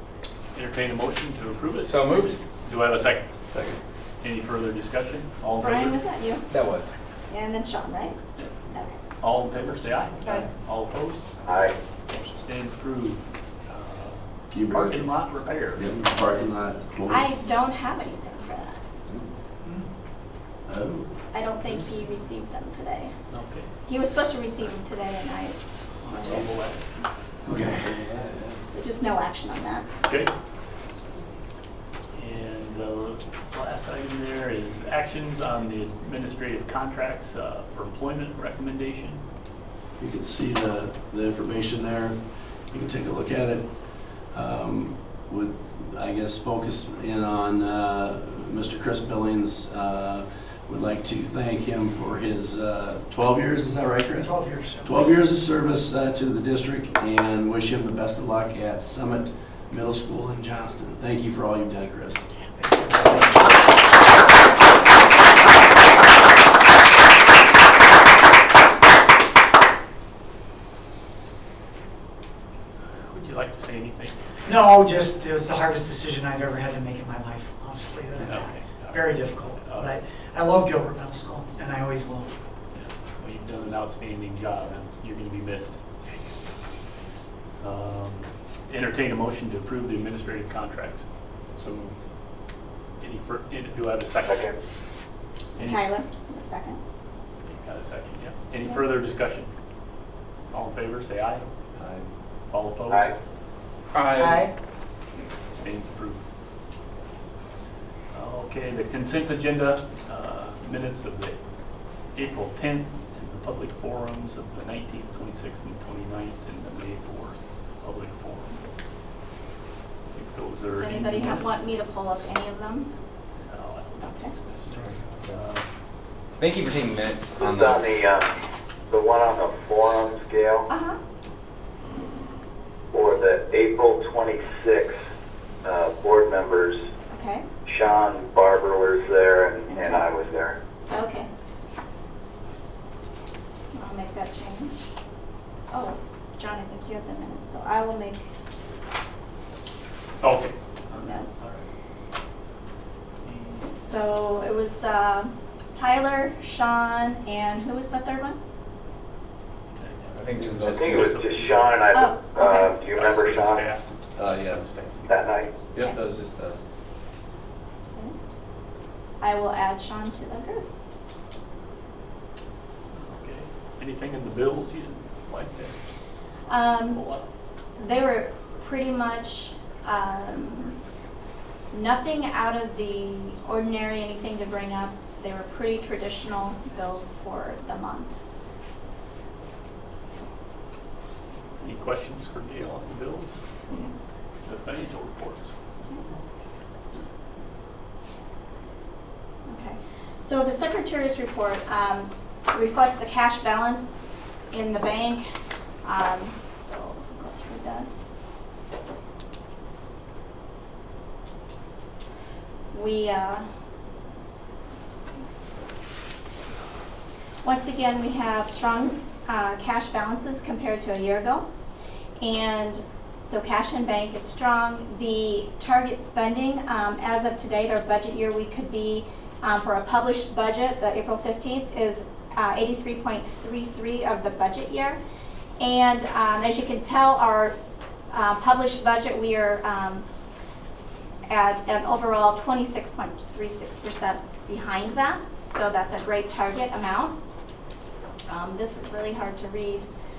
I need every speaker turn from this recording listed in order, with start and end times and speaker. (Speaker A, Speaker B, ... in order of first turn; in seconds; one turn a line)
Speaker A: 0.5-3.3
Speaker B: 1.8-2.3
Speaker A: 4.2-6.0
Speaker C: 5.7-6.4
Speaker B: 6.5-6.9
Speaker C: 7.3-8.1
Speaker A: 9.2-11.5
Speaker D: 11.4-11.7
Speaker A: 12.4-15.8
Speaker E: 14.5-15.1
Speaker E: 15.7-17.3
Speaker C: 17.1-18.8
Speaker E: 20.7-21.1
Speaker C: 21.3-23.1
Speaker A: 23.3-23.7
Speaker C: 23.9-26.4
Speaker A: 26.0-26.9
Speaker E: 27.4-28.1
Speaker B: 27.6-28.5
Speaker C: 28.7-29.8
Speaker A: 30.1-30.3
Speaker A: 32.1-39.2
Speaker E: 40.0-62.2
Speaker F: 54.1-55.1
Speaker F: 62.5-63.5
Speaker A: 73.0-74.1
Speaker F: 74.5-82.3
Speaker A: 78.2-80.0
Speaker A: 82.7-85.8
Speaker A: 87.6-91.0
Speaker B: 91.6-91.9
Speaker A: 93.0-94.5
Speaker D: 94.2-94.6
Speaker A: 95.6-96.0
Speaker C: 95.6-96.8
Speaker A: 97.4-99.5
Speaker A: 100.5-101.5
Speaker A: 102.5-103.1
Speaker B: 103.9-104.5
Speaker A: 105.5-106.2
Speaker A: 108.1-111.4
Speaker A: 112.1-118.6
Speaker A: 120.1-121.5
Speaker C: 121.1-122.9
Speaker A: 123.5-125.6
Speaker B: 126.4-128.0
Speaker D: 127.3-128.3
Speaker D: 128.9-130.7
Speaker D: 132.9-135.0
Speaker D: 135.6-136.8
Speaker C: 137.1-137.4
Speaker D: 137.6-140.6
Speaker C: 139.7-140.0
Speaker C: 141.0-141.3
Speaker C: 143.7-144.8
Speaker C: 145.7-148.2
Speaker A: 150.2-151.7
Speaker A: 153.2-153.8
Speaker C: 153.8-158.4
Speaker A: 159.7-161.8
Speaker B: 160.1-160.8
Speaker D: 160.7-163.6
Speaker C: 161.9-162.6
Speaker A: 162.9-165.2
Speaker B: 164.2-164.6
Speaker D: 165.1-165.7
Speaker B: 165.7-166.6
Speaker C: 169.2-170.6
Speaker A: 172.9-175.8
Speaker C: 176.5-176.9
Speaker A: 176.8-177.2
Speaker C: 177.8-180.7
Speaker C: 181.7-188.1
Speaker A: 191.6-193.3
Speaker A: 194.4-195.5
Speaker C: 199.5-203.9
Speaker C: 204.5-205.2
Speaker C: 205.8-207.9
Speaker C: 212.7-213.4
Speaker C: 217.4-221.4
Speaker C: 222.2-235.0
Speaker C: 235.6-237.5
Speaker C: 238.1-240.0
Speaker C: 241.3-247.1
Speaker C: 248.3-249.8